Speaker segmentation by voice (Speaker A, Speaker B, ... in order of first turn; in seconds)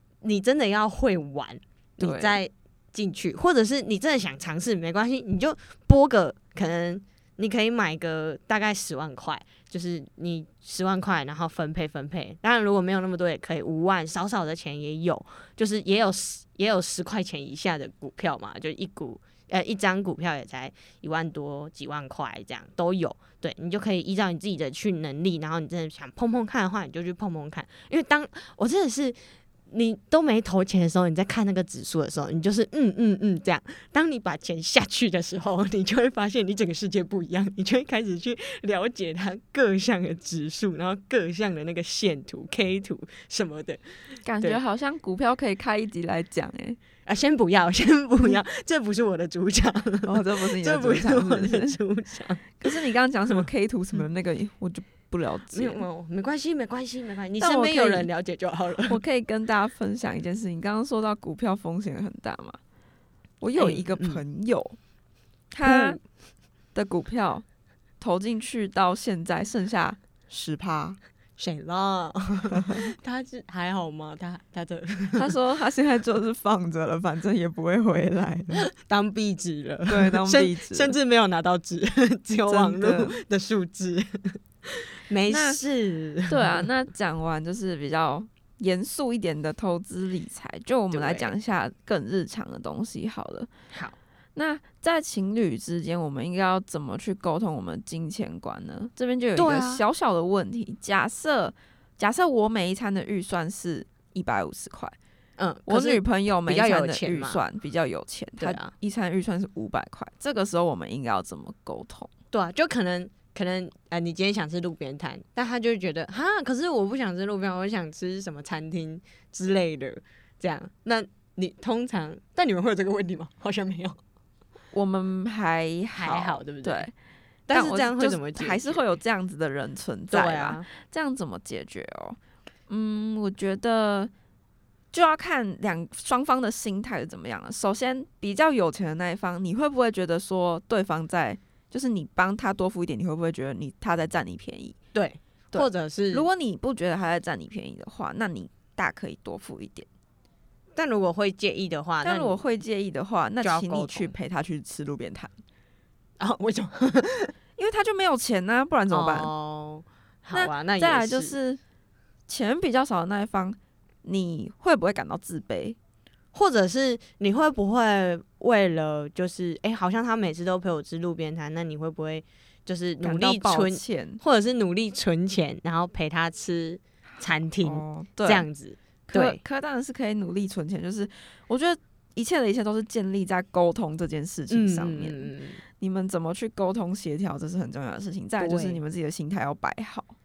Speaker A: 0.2-29.2, 29.7-43.8, 47.0-52.8, 55.5-59.0, 63.6-64.2, 65.6-66.0, 71.4-75.3, 78.7-86.7, 90.9-91.3, 99.3-99.8, 105.4-107.4, 108.4-108.7, 112.3-124.0, 125.9-126.9, 127.5-128.8, 130.1-130.6, 144.9-146.3, 150.7-152.4, 153.4-154.1, 156.2-157.3, 158.9-161.3, 166.3-179.4, 184.5-185.6, 188.4-188.8
Speaker B: 2.0-2.4, 44.2-46.8, 50.0-51.8, 52.6-55.8, 57.4-58.1, 58.9-62.6, 63.4-64.8, 65.5-66.0, 66.7-67.4, 68.0-71.0, 72.6-72.8, 75.2-78.7, 79.9-80.9, 82.5-83.2, 85.3-85.6, 86.3-93.5, 94.3-105.0, 105.7-112.1, 124.7-126.9, 127.5-134.1, 134.9-144.8, 145.5-149.9, 152.0-155.3, 157.6-159.3, 160.3-161.6, 162.3-165.8, 173.0-174.2, 177.2-178.4, 179.1-190.2